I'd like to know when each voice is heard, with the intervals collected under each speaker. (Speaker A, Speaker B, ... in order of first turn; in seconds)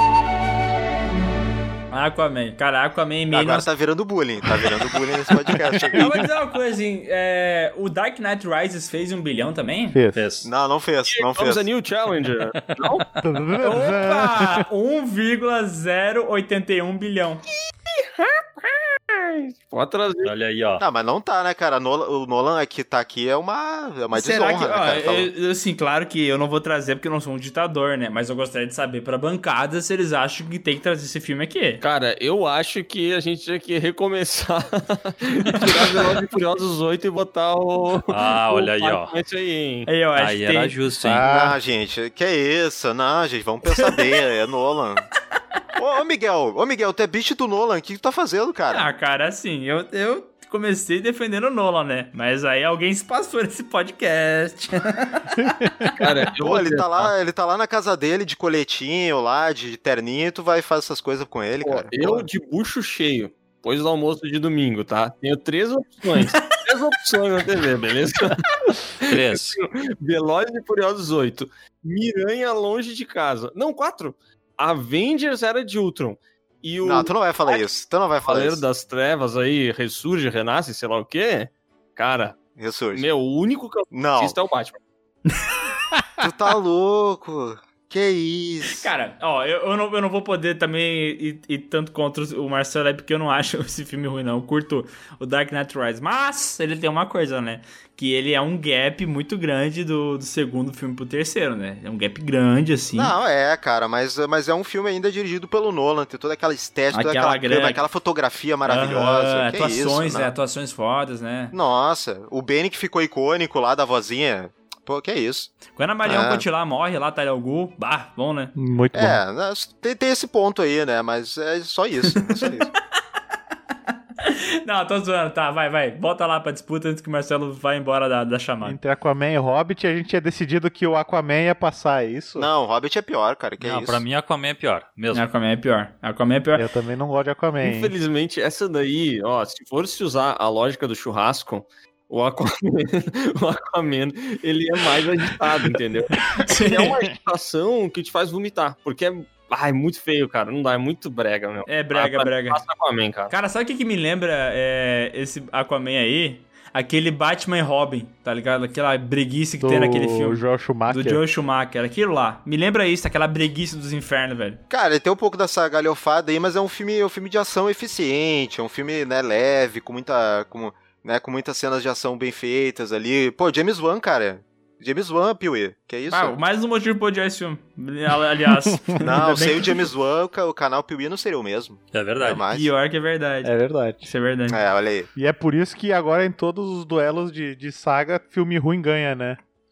Speaker A: 1.9-3.7, 5.9-10.0, 13.6-17.4, 24.1-31.8, 39.9-40.8, 43.8-44.0, 48.7-55.6, 85.3-85.6, 88.7-103.1, 106.9-107.8, 108.7-111.5, 115.8-118.5, 124.2-128.8, 135.1-136.7, 146.4-147.0, 151.7-152.6, 153.3-164.6, 176.1-179.8, 182.5-184.6
Speaker B: 3.3-6.1, 10.4-11.6, 20.8-25.3, 41.2-45.1, 45.8-48.9, 56.4-62.3, 76.8-78.6, 82.6-83.1, 83.9-84.4, 86.2-88.9, 102.9-110.3, 111.5-115.5, 116.0-116.5, 118.9-122.7, 132.4-134.0, 164.7-176.4, 179.0-182.7, 184.5-185.1
Speaker C: 9.9-10.2, 13.2-14.7, 41.0-41.6, 55.4-56.0, 118.6-119.2, 128.6-132.5, 136.6-137.9, 159.6-161.2, 178.7-179.0, 183.4-184.1, 185.2-189.4
Speaker D: 10.2-10.5, 12.6-13.0, 20.2-20.8, 38.1-39.1, 40.2-41.3, 69.0-69.6, 133.6-135.2, 181.9-182.4
Speaker E: 11.1-13.1, 18.2-20.3, 31.8-39.9, 56.0-57.1, 61.6-68.4, 69.0-77.7, 78.2-82.4, 82.9-84.8, 137.6-153.3